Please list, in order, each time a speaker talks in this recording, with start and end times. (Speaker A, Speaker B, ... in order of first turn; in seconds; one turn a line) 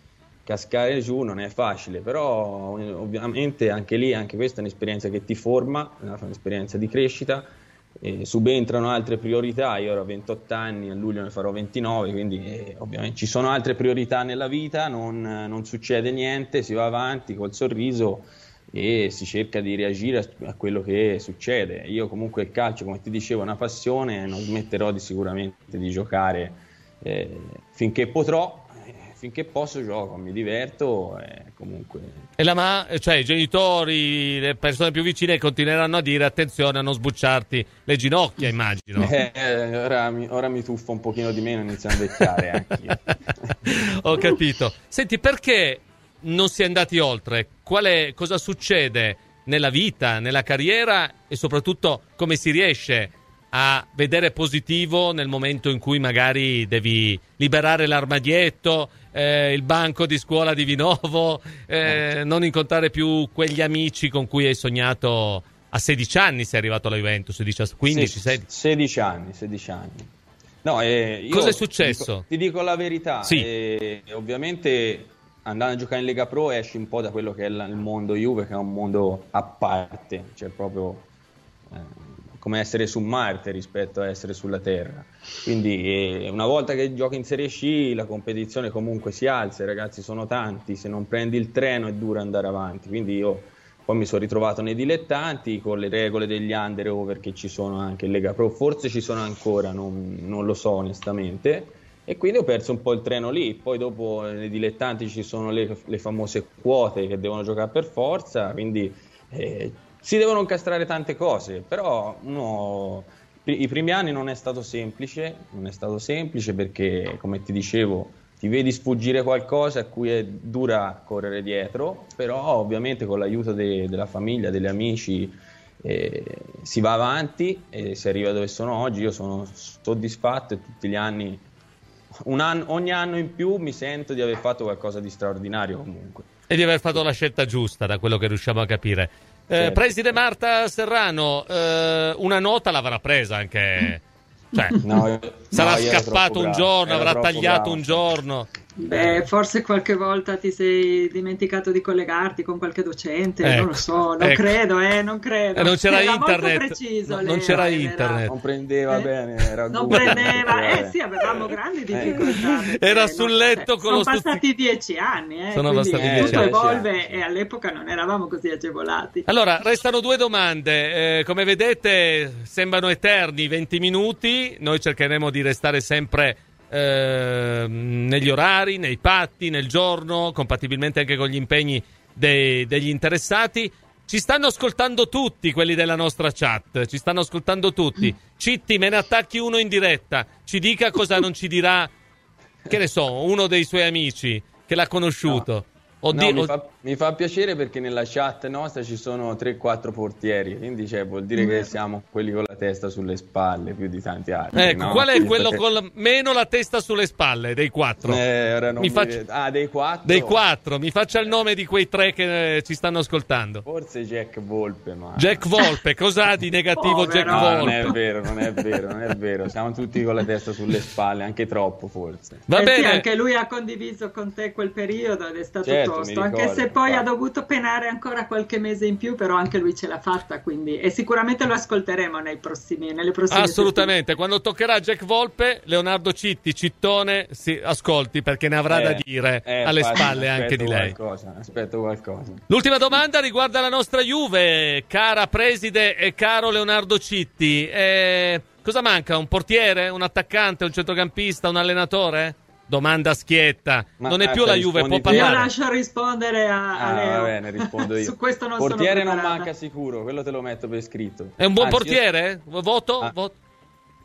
Speaker A: 0.5-32.3
Speaker B: 32.4-39.1
Speaker A: 39.0-43.5
Speaker B: 43.6-68.4
Speaker A: 67.9-70.1
Speaker A: 70.6-81.1
Speaker B: 71.3-72.2
Speaker A: 81.7-131.4
Speaker A: 132.2-136.3
Speaker B: 136.5-144.8
Speaker A: 139.6-139.9
Speaker C: 144.7-145.0
Speaker A: 144.8-148.0
Speaker B: 145.5-148.5
Speaker C: 148.8-158.3
Speaker B: 153.4-154.6
Speaker B: 155.6-158.3
Speaker A: 158.3-162.3
Speaker C: 159.7-169.3
Speaker B: 159.9-160.3
Speaker B: 162.1-164.4
Speaker B: 165.5-166.5
Speaker A: 166.0-167.2
Speaker B: 169.3-191.9
Speaker B: 192.7-196.5
Speaker A: 196.1-205.6
Speaker C: 201.4-201.7
Speaker B: 204.6-208.2
Speaker A: 208.0-210.4
Speaker B: 208.8-209.2
Speaker B: 210.0-213.6
Speaker A: 213.6-215.4
Speaker B: 215.2-217.9
Speaker C: 216.8-217.9
Speaker A: 217.3-222.4
Speaker B: 222.5-223.1
Speaker C: 222.6-233.9
Speaker A: 225.6-227.1
Speaker B: 233.3-240.9
Speaker A: 238.7-242.4
Speaker B: 242.5-255.5
Speaker A: 254.0-255.5
Speaker C: 255.1-259.5
Speaker A: 256.8-262.0
Speaker B: 261.4-263.4